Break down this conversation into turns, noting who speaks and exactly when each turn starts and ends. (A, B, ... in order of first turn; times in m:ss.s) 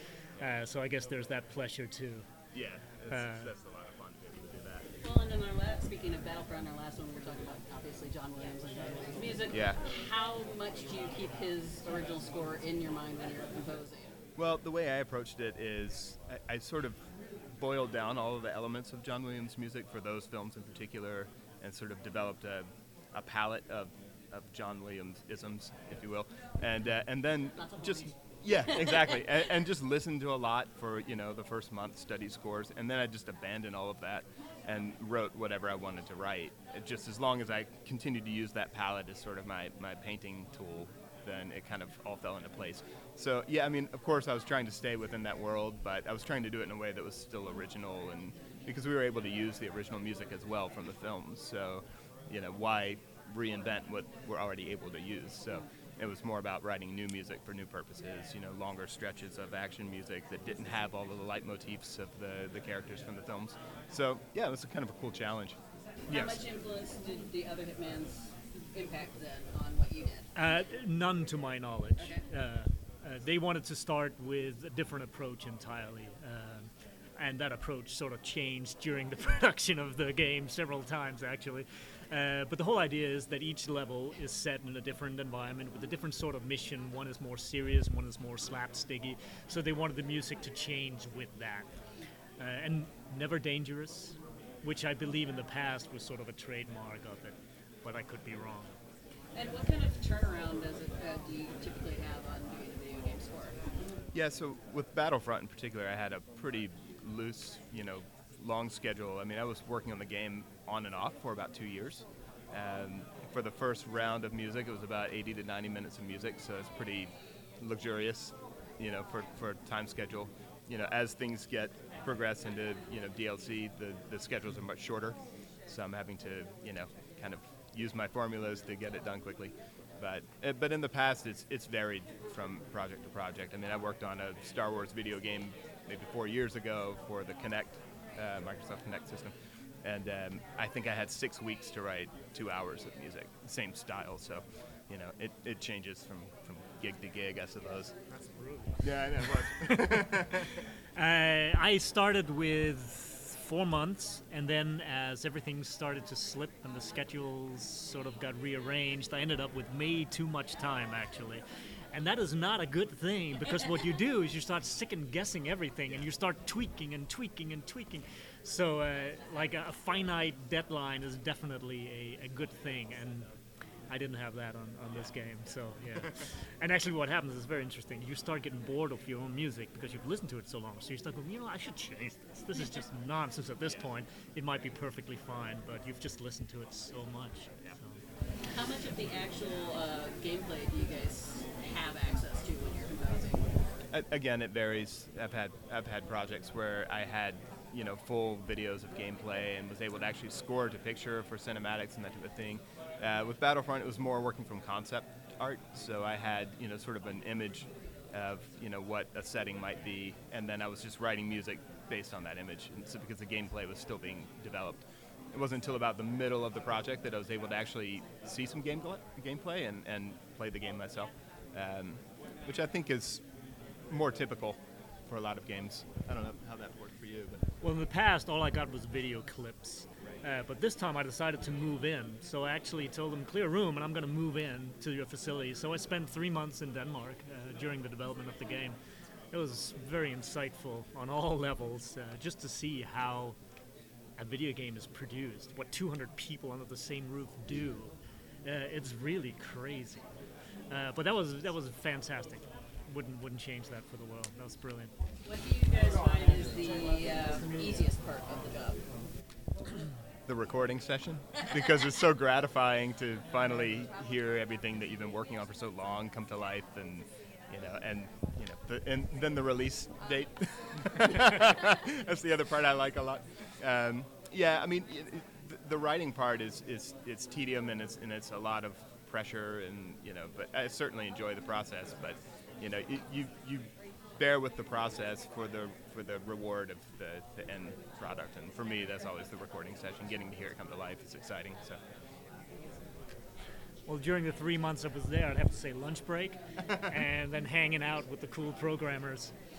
0:00.4-0:02.3 A
0:02.5-0:04.9 B
0:03.1-0:03.5 A
0:05.0-0:14.2 C
0:09.5-0:09.8 B
0:14.4-1:06.4 B
0:27.6-0:29.2 C
1:06.1-1:10.3 C
1:10.3-1:31.7 A
1:12.0-1:12.2 C
1:32.4-1:38.7 A
1:39.3-1:43.6 C
1:44.1-2:27.9 B
2:28.1-2:30.1 A
2:28.8-2:30.5 B
2:31.0-2:41.4 A
2:41.9-2:53.3 A
2:53.9-3:08.0 A
3:02.5-3:02.8 C
3:08.4-3:13.4 C
3:13.9-3:34.8 B
3:35.3-3:43.2 B
3:43.9-3:47.4 B
3:47.6-3:58.8 A
3:59.3-4:03.4 A
4:04.2-4:10.0 A
4:10.7-4:14.9 A
4:15.2-4:18.8 C
4:20.3-4:51.8 B
4:53.9-4:59.3 A